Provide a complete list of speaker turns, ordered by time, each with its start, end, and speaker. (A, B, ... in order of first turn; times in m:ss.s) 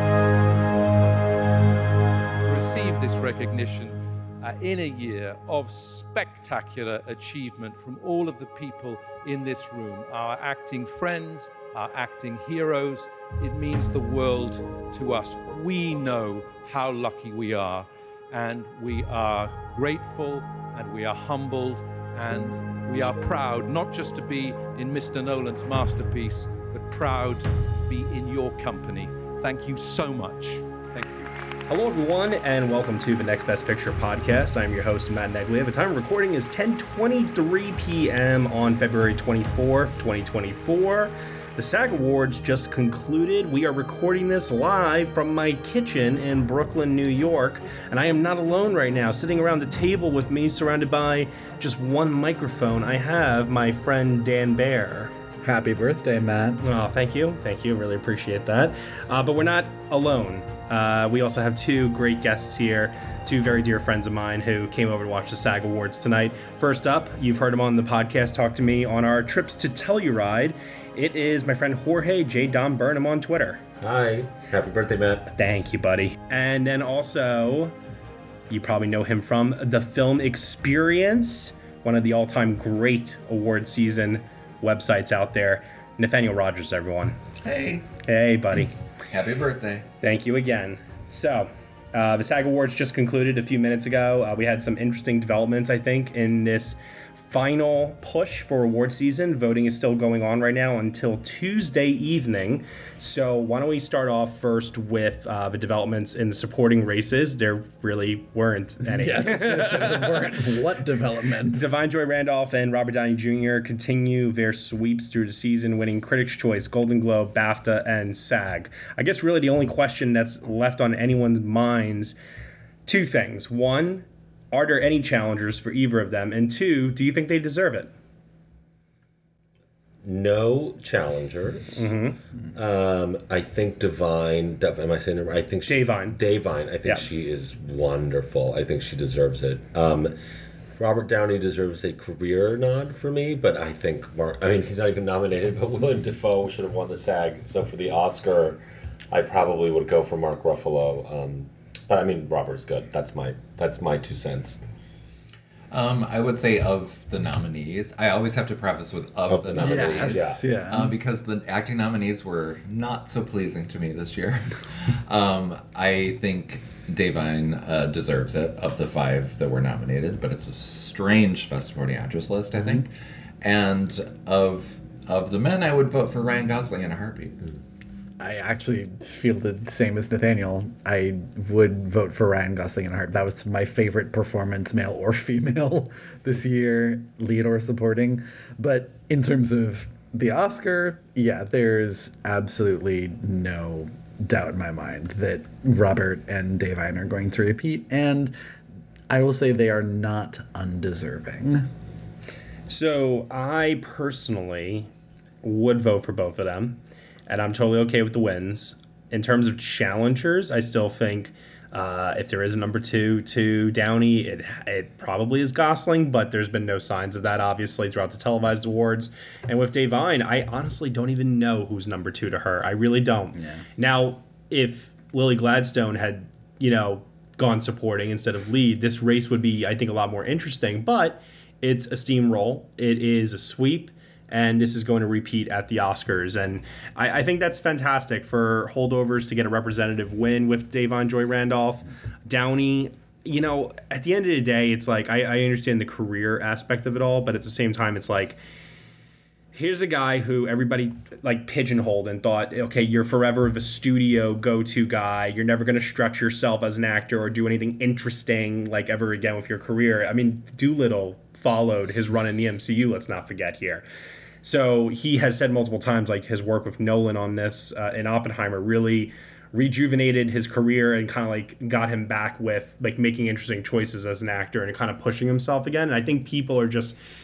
0:02.5-0:31.3 A
0:31.7-0:55.1 B
0:55.4-0:56.6 C
0:56.6-1:13.6 B
1:13.8-1:15.3 D
1:15.3-1:17.8 B
1:18.5-1:27.1 B
1:27.4-1:27.9 E
1:28.1-1:28.7 B
1:29.1-1:29.9 E
1:30.0-1:50.2 B
1:48.8-1:51.8 C
1:51.5-2:02.2 B
2:02.9-2:07.9 B
2:10.0-2:11.9 D
2:11.8-2:12.2 B
2:12.6-2:20.1 D
2:15.7-2:16.2 B
2:20.8-2:28.6 D
2:29.1-2:34.6 D
2:35.7-2:52.9 E
2:39.3-2:40.4 D
2:39.6-2:41.0 C
2:53.4-2:57.4 E
2:58.2-3:18.3 C
3:19.1-3:21.6 C
3:22.7-3:24.9 B
3:25.4-4:08.4 B
3:43.4-3:43.6 C
4:09.5-4:23.8 B
4:24.4-4:37.0 B